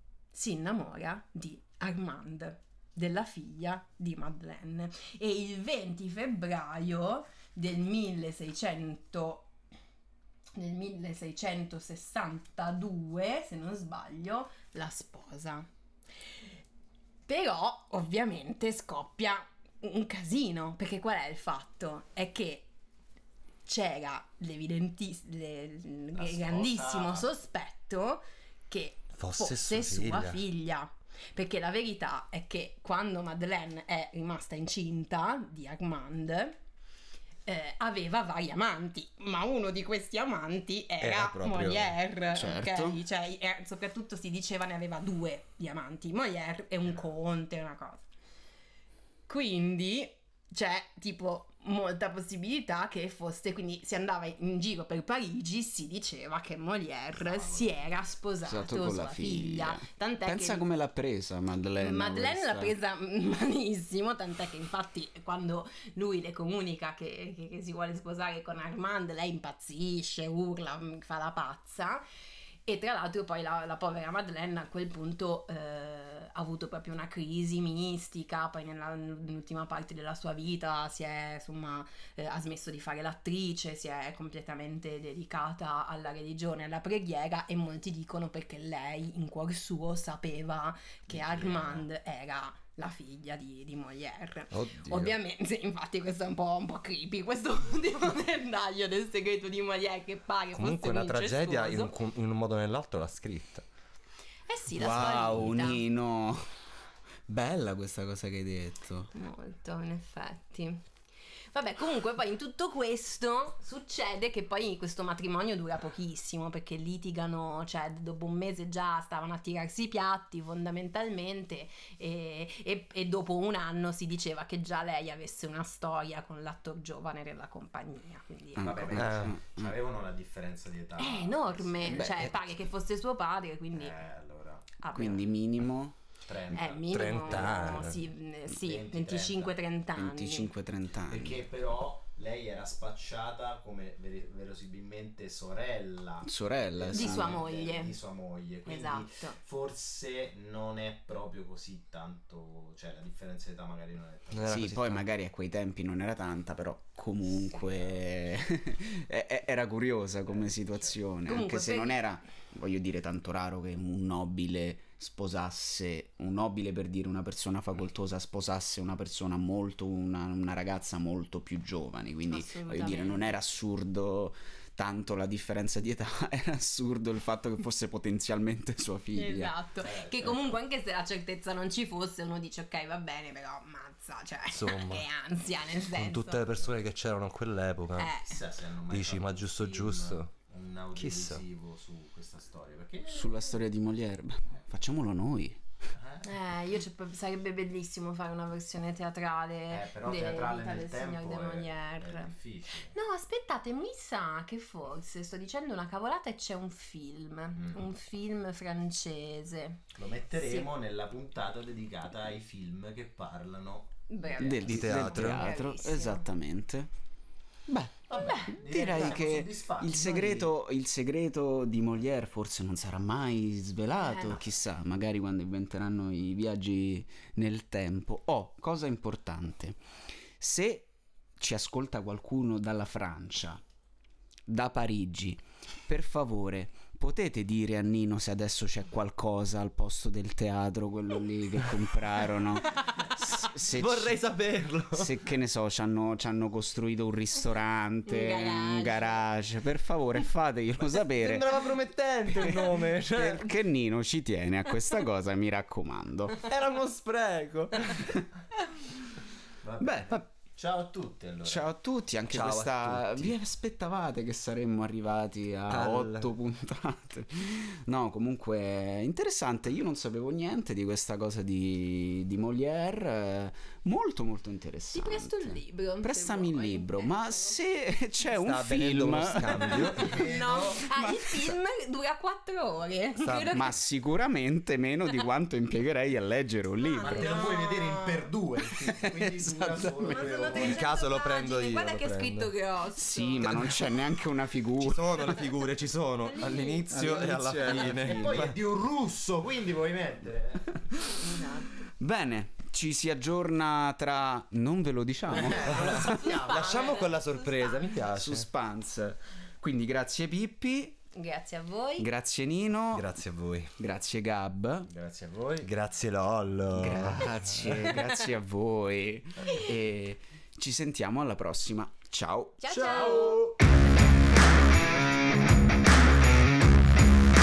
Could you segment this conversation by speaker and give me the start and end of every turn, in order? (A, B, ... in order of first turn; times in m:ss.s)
0:00.3-0:09.5 A
0:10.6-0:15.7 A
0:17.3-0:22.7 A
0:23.6-0:36.6 A
0:26.1-0:27.3 B
0:29.2-0:30.4 C
0:37.4-0:48.0 A
0:41.0-0:42.0 C
0:42.3-0:43.0 D
0:49.3-1:00.6 A
0:57.2-0:58.0 B
0:58.4-1:02.8 D
1:01.8-1:12.0 A
1:12.6-1:41.9 A
1:31.1-1:31.8 B
1:34.5-1:35.1 C
1:40.6-1:43.6 C
1:44.5-1:45.8 A
1:44.7-1:46.4 D
1:47.3-1:49.1 D
1:49.1-1:50.8 A
1:51.5-2:09.0 A
2:08.6-2:09.7 D
2:08.6-2:12.5 B
2:09.0-2:09.3 C
2:11.0-2:14.0 A
2:11.8-2:12.4 D
2:13.7-2:14.7 B
2:14.8-2:15.3 A
2:14.9-2:16.0 D
2:16.2-2:19.6 B
2:16.5-2:20.5 A
2:16.9-2:18.0 C
2:19.9-2:21.4 D
2:21.1-2:34.7 B
2:26.2-2:27.4 D
2:26.9-2:27.9 A
2:28.6-2:29.4 A
2:34.3-2:35.0 C
2:34.5-2:59.5 D
2:37.4-2:38.0 B
2:40.4-2:40.9 B
2:41.3-2:42.0 A
2:52.3-2:53.3 A
2:59.1-3:06.4 A
2:59.8-3:00.5 B
3:04.5-3:05.0 C
3:05.9-3:08.1 C
3:08.0-3:08.4 A
3:08.2-3:13.6 B
3:08.9-3:10.3 C
3:10.9-3:11.4 C
3:13.1-3:15.6 D
3:15.9-3:16.3 B
3:16.2-3:22.3 A
3:19.7-3:22.9 B
3:22.9-3:30.7 A
3:29.9-3:34.4 B
3:34.1-3:36.2 A
3:34.4-3:36.9 D
3:34.6-3:35.5 C
3:37.7-3:49.8 D
3:38.1-3:40.5 B
3:38.2-3:38.5 A
3:44.0-3:44.4 A
3:50.4-3:53.6 D
3:54.5-4:04.2 D
4:03.4-4:05.1 C
4:04.9-4:11.6 D
4:08.0-4:09.2 A
4:11.1-4:13.5 C
4:12.3-4:16.4 D
4:16.4-4:18.2 C
4:19.6-4:21.7 B
4:19.8-4:20.2 D
4:21.4-4:40.2 D
4:22.3-4:23.3 C
4:25.7-4:26.3 C
4:34.9-4:37.6 A
4:38.3-4:40.2 C
4:39.8-4:40.9 B
4:40.0-4:43.7 A
4:40.8-4:41.5 D
4:43.2-4:43.5 C
4:43.5-4:47.4 D
4:46.8-4:48.3 A
4:47.0-4:50.8 B
4:48.8-4:50.4 D
4:50.0-4:53.7 A
4:50.5-4:52.5 C
4:53.0-4:55.5 D
4:53.4-4:54.0 C
4:54.7-4:58.6 C
4:56.2-4:57.1 A
4:56.8-4:58.5 D
4:57.7-5:00.8 B
5:00.8-5:01.2 D
5:01.2-5:01.9 A
5:02.0-5:06.2 D
5:05.3-5:07.1 B
5:05.3-5:07.9 A
5:05.7-5:08.4 C
5:08.1-5:11.0 D
5:11.1-5:12.1 A
5:12.0-5:13.2 D
5:12.9-5:13.7 C
5:13.8-5:14.9 D
5:14.9-5:15.7 B
5:15.6-5:18.0 C
5:16.7-5:23.1 D
5:17.8-5:18.2 A
5:22.6-5:23.4 A
5:22.7-5:23.6 B